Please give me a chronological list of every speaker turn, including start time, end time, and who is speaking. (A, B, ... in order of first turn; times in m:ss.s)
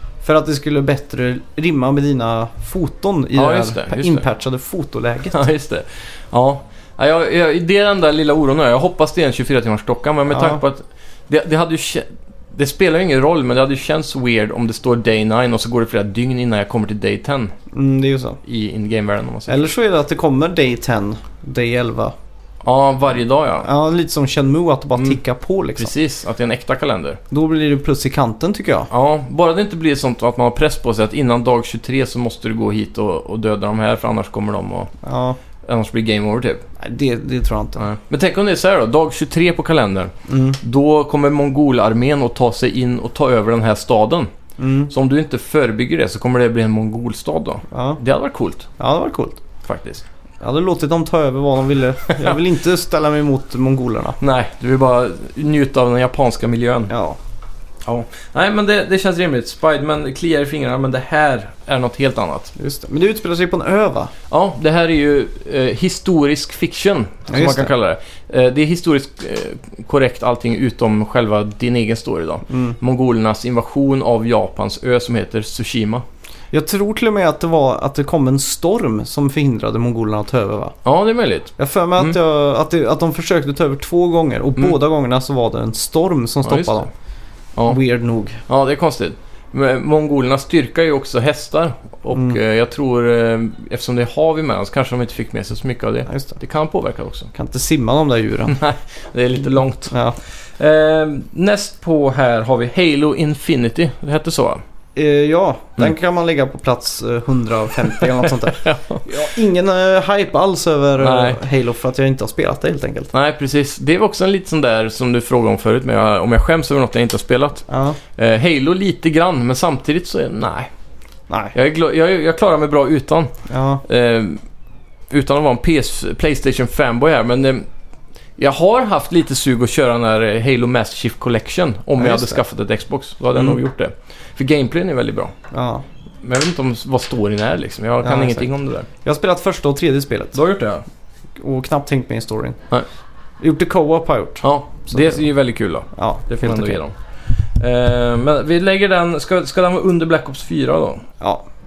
0:00.2-0:05.4 A
0:03.4-0:04.3 B
0:05.3-0:17.5 B
0:10.3-0:10.6 A
0:17.7-0:18.4 A
0:18.4-0:19.6 B
0:19.5-0:22.2 A
0:22.6-0:23.7 B
0:23.6-0:25.9 A
0:25.8-0:27.2 B
0:27.3-0:28.9 A
0:28.9-0:34.9 B
0:35.0-0:35.4 A
0:35.6-0:36.6 B
0:36.8-0:37.8 A
0:37.8-0:44.3 B
0:40.3-0:40.6 A
0:44.6-0:44.9 A
0:44.9-0:48.7 B
0:47.7-0:48.0 A
0:48.8-0:49.4 A
0:49.6-0:50.0 B
0:50.4-0:54.2 A
0:54.2-0:56.9 B
0:56.9-0:57.2 A
0:57.8-1:02.5 B
1:02.6-1:04.1 A
1:04.3-1:16.0 B
1:07.3-1:07.7 A
1:12.5-1:12.8 A
1:16.5-1:20.8 A
1:20.8-1:22.2 B
1:21.6-1:26.9 A
1:26.4-1:26.8 B
1:27.6-1:28.4 A
1:28.5-1:37.3 B
1:36.1-1:36.4 A
1:37.3-1:38.6 A
1:38.5-1:44.6 B
1:39.9-1:40.2 A
1:45.0-1:53.1 A
1:47.9-1:49.3 B
1:51.0-1:51.4 B
1:53.1-2:00.7 B
1:57.7-1:58.0 A
2:01.5-2:03.3 B
2:03.5-2:03.8 A
2:03.8-2:04.4 B
2:05.1-2:07.7 B
2:08.4-2:15.3 B
2:12.0-2:12.4 A
2:15.5-2:15.8 A
2:16.2-2:18.9 B
2:18.0-2:18.5 A
2:19.0-2:20.4 A
2:20.3-2:20.8 B
2:21.4-2:22.6 A
2:23.4-2:25.2 A
2:24.4-2:31.1 B
2:26.0-2:26.8 A